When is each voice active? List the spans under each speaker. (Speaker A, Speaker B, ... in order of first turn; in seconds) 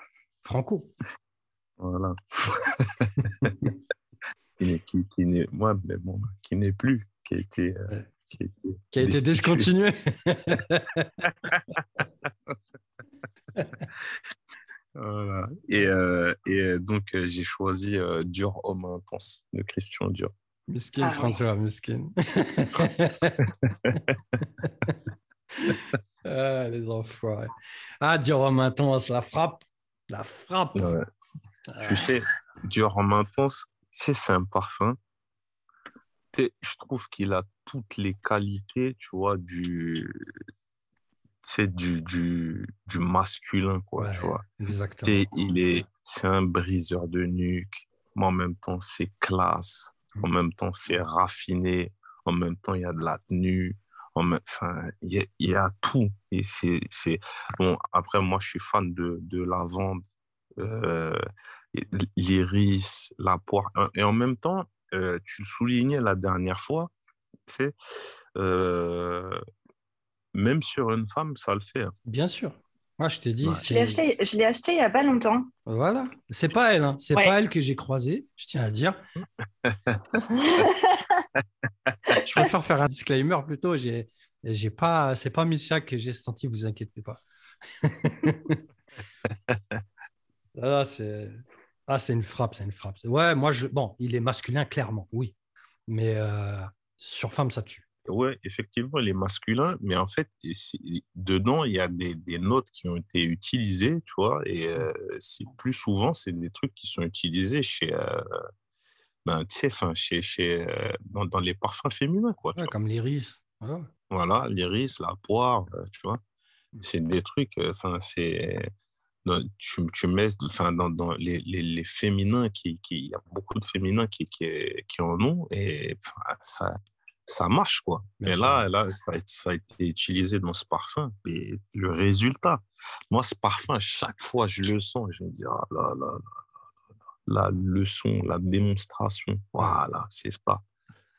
Speaker A: 0.4-0.9, 3.4-3.7, 8.9-11.1, 13.6-13.8, 20.7-24.0, 24.6-25.0, 25.6-31.0, 31.7-32.1, 44.0-45.2, 72.1-74.0, 75.7-79.0, 82.2-87.2, 87.8-88.6, 90.6-95.3, 95.9-97.9, 112.6-113.9, 128.2-128.7
Speaker B: 1.8-3.7, 4.6-9.7, 11.4-12.6, 15.0-20.3, 23.4-24.4, 30.8-31.0, 31.8-35.0, 36.3-40.2, 41.4-44.4, 45.0-60.0, 60.6-61.2, 61.7-66.9, 67.5-67.8, 68.4-69.4, 70.3-71.9, 79.7-80.0, 81.7-82.1, 89.5-89.8, 98.1-108.4, 109.2-112.7, 114.1-116.2, 116.8-118.7, 119.2-136.3, 137.3-140.6
Speaker C: 21.0-21.4, 73.7-75.5, 80.3-81.2